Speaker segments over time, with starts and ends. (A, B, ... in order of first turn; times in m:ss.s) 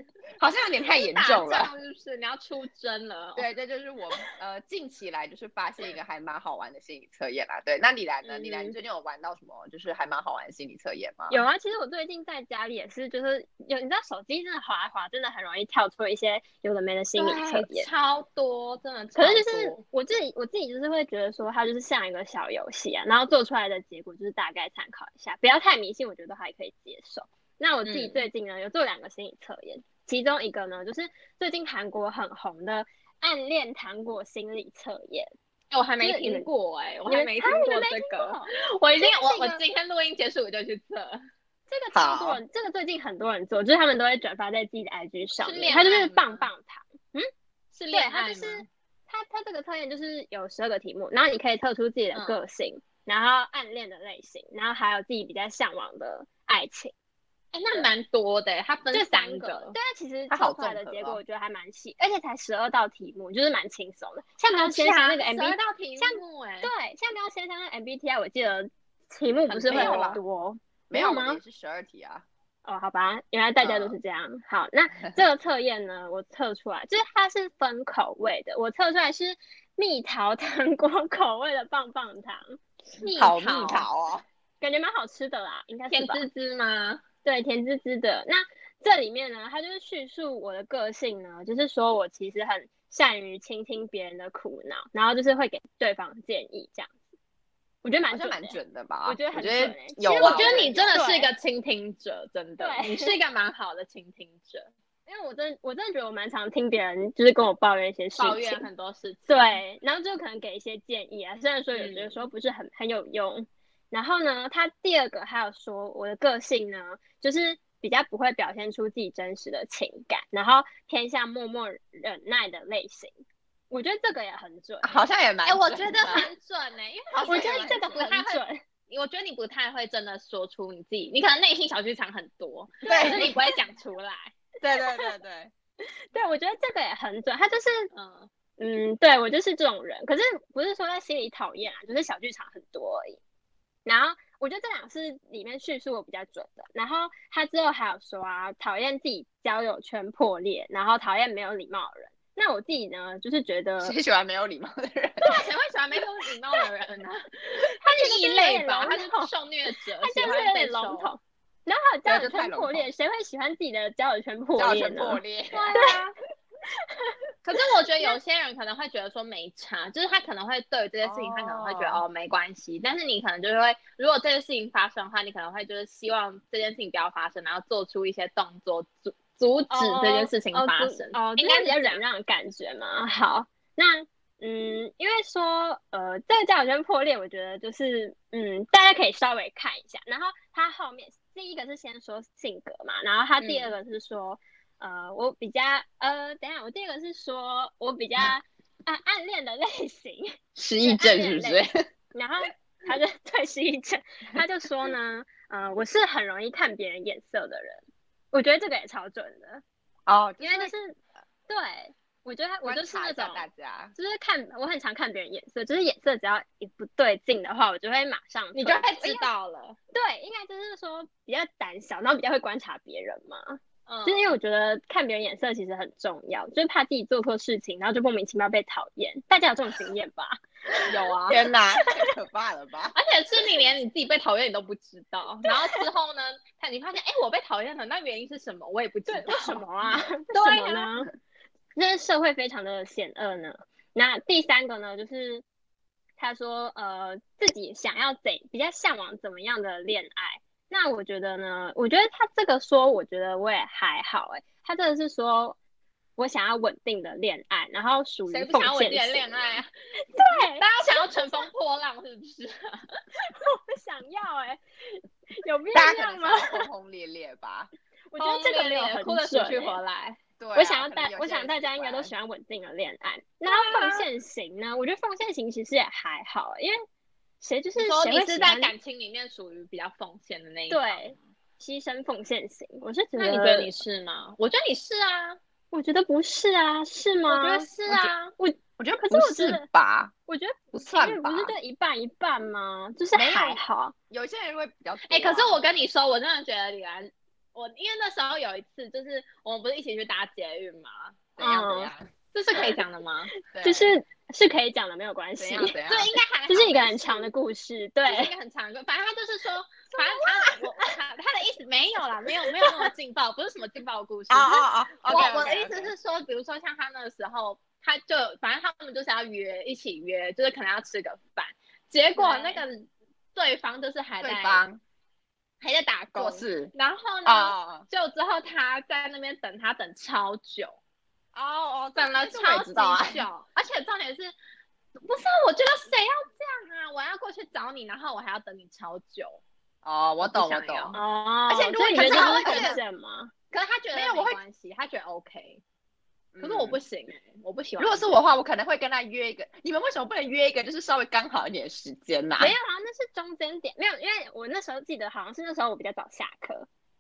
0:00.4-0:01.7 A
0:00.9-0:03.5 B
0:03.4-0:11.4 A
0:08.2-0:08.8 C
0:11.3-0:17.9 C
0:17.2-0:19.8 B
0:19.2-0:35.3 C
0:27.9-0:28.2 B
0:35.7-0:41.2 B
0:36.0-0:36.5 C
0:37.1-0:39.6 C
0:41.7-0:47.3 C
0:41.9-0:42.4 A
0:45.4-0:46.5 B
0:47.7-0:48.7 B
0:47.9-0:56.9 C
0:52.1-0:52.4 B
0:57.5-0:59.8 B
0:58.9-1:11.4 C
1:00.3-1:01.2 A
1:04.5-1:06.7 B
1:09.5-1:10.2 B
1:09.7-1:10.2 A
1:10.9-1:12.2 A
1:12.7-1:22.6 C
1:13.6-1:14.0 A
1:23.0-1:23.8 B
1:23.2-1:24.2 A
1:24.6-1:26.2 C
1:25.9-1:27.0 B
1:27.2-1:36.9 C
1:37.8-1:41.3 C
1:38.1-1:41.0 A
1:40.2-1:44.7 B
1:42.6-1:43.2 C
1:45.1-1:48.6 C
1:48.2-1:49.6 B
1:49.3-2:03.1 C
1:51.7-1:52.2 B
2:03.7-2:04.9 C
2:04.8-2:06.2 A
2:05.5-2:14.3 B
2:07.1-2:08.0 A
2:07.3-2:08.6 C
2:12.8-2:13.5 C
2:12.9-2:13.4 A
2:14.6-2:15.5 A
2:16.0-2:17.9 C
2:17.9-2:18.3 B
2:18.6-2:23.2 C
2:23.9-2:34.0 C
2:33.8-2:35.4 A
2:35.2-2:41.1 B
2:37.8-2:39.3 C
2:40.0-2:45.2 C
2:42.1-2:42.9 A
2:44.6-2:45.7 A
2:45.5-2:46.1 B
2:46.8-2:47.2 C
2:47.4-3:02.0 B
2:51.0-2:52.0 A
2:59.7-3:29.6 C
3:13.4-3:13.7 B
3:20.6-3:21.8 A
3:30.1-3:30.7 A
3:30.4-3:31.0 C
3:31.5-3:39.3 C
3:32.6-3:33.9 A
3:38.6-3:39.8 B
3:39.9-3:50.4 C
3:43.9-3:44.3 B
3:50.9-3:51.5 B
3:51.3-3:53.0 A
3:53.0-3:59.6 B
3:55.5-3:55.8 C
3:59.1-4:01.1 C
4:00.3-4:00.9 B
4:01.8-4:05.4 C
4:06.2-4:15.6 C
4:16.2-4:21.5 C
4:18.3-4:19.7 B
4:20.3-4:23.0 B
4:23.2-4:26.7 C
4:25.7-4:27.7 A
4:28.1-4:29.8 C
4:28.2-4:30.2 B
4:30.4-4:32.1 A
4:30.6-4:36.8 C
4:33.5-4:34.0 B
4:37.4-4:38.7 C
4:37.8-4:41.2 B
4:40.7-4:43.8 C
4:43.2-4:45.4 B
4:45.7-4:47.7 C
4:47.3-4:48.3 B
4:48.4-4:49.7 C
4:48.8-4:50.1 A
4:50.3-4:53.9 C
4:50.7-4:51.6 A
4:53.2-4:55.6 A
4:55.1-5:01.2 B
5:01.4-5:02.1 A
5:01.4-5:01.9 C
5:02.3-5:03.3 B
5:03.5-5:03.9 A
5:03.6-5:05.8 C
5:05.4-5:06.1 A
5:05.9-5:07.3 B
5:06.5-5:08.3 C
5:08.1-5:24.6 B
5:10.0-5:10.6 A
5:14.3-5:15.9 A
5:22.2-5:22.6 C
5:24.2-5:24.8 A
5:25.6-5:30.8 B
5:26.2-5:26.7 A
5:27.2-5:27.8 A
5:31.3-5:33.3 A
5:32.0-5:34.3 B
5:35.0-5:39.4 B
5:39.8-5:41.0 A
5:40.2-5:41.0 B
5:41.0-5:43.3 C
5:41.5-5:42.8 A
5:41.9-5:42.8 B
5:43.5-5:45.6 B
5:43.9-5:44.4 A
5:46.3-5:46.8 A
5:46.4-5:48.2 B
5:47.8-5:52.6 A
5:52.4-5:56.7 C